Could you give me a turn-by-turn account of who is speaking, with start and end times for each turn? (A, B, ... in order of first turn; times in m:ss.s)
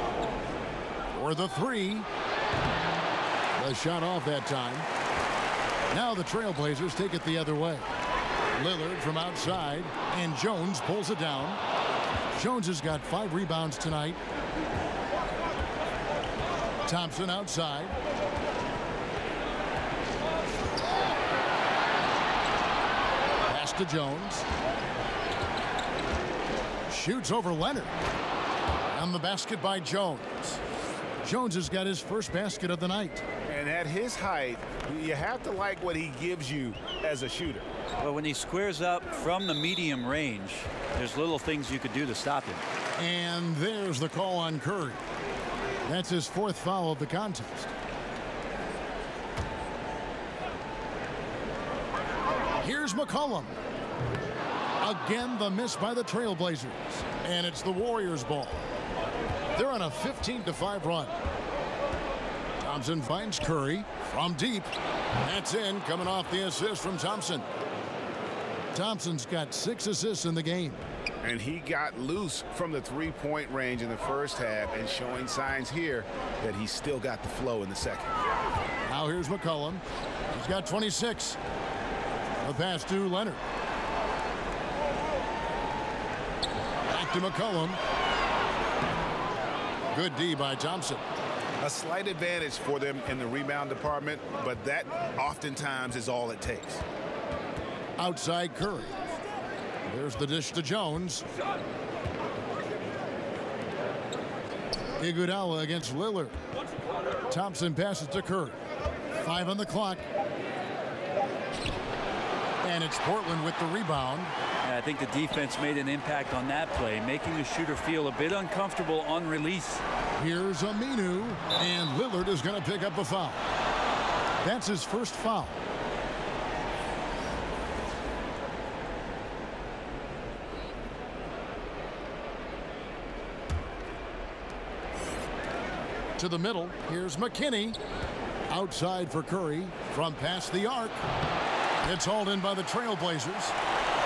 0:01.1-0:02.1 A
0:03.6-0:04.9 A
0:05.9-0:07.8 A
0:08.6-0:11.6 A
0:12.3-0:14.2 A
0:16.8-0:18.0 A
0:23.5-0:24.5 A
0:26.9-0:27.9 A
0:28.9-0:30.6 A
0:31.2-0:33.2 A
0:33.5-0:37.7 B
0:38.0-0:42.6 C
0:43.0-0:45.0 A
0:45.8-0:47.7 A
0:52.6-0:53.5 A
0:54.8-0:58.6 A
0:59.5-1:01.2 A
1:02.6-1:07.5 A
1:08.7-1:10.8 A
1:11.2-1:18.1 B
1:18.9-1:19.8 A
1:20.3-1:21.4 A
1:22.4-1:23.4 A
1:26.9-1:27.8 A
1:29.9-1:31.0 A
1:31.6-1:36.8 B
1:38.0-1:39.0 A
1:39.9-1:41.3 A
1:45.0-1:46.4 A
1:47.3-1:48.6 A
1:49.2-1:50.0 A
1:52.6-1:54.3 A
1:54.6-1:59.8 C
2:00.2-2:03.4 A
2:04.4-2:05.7 A
2:16.2-2:17.8 A
2:18.5-2:21.0 A
2:21.8-2:23.6 A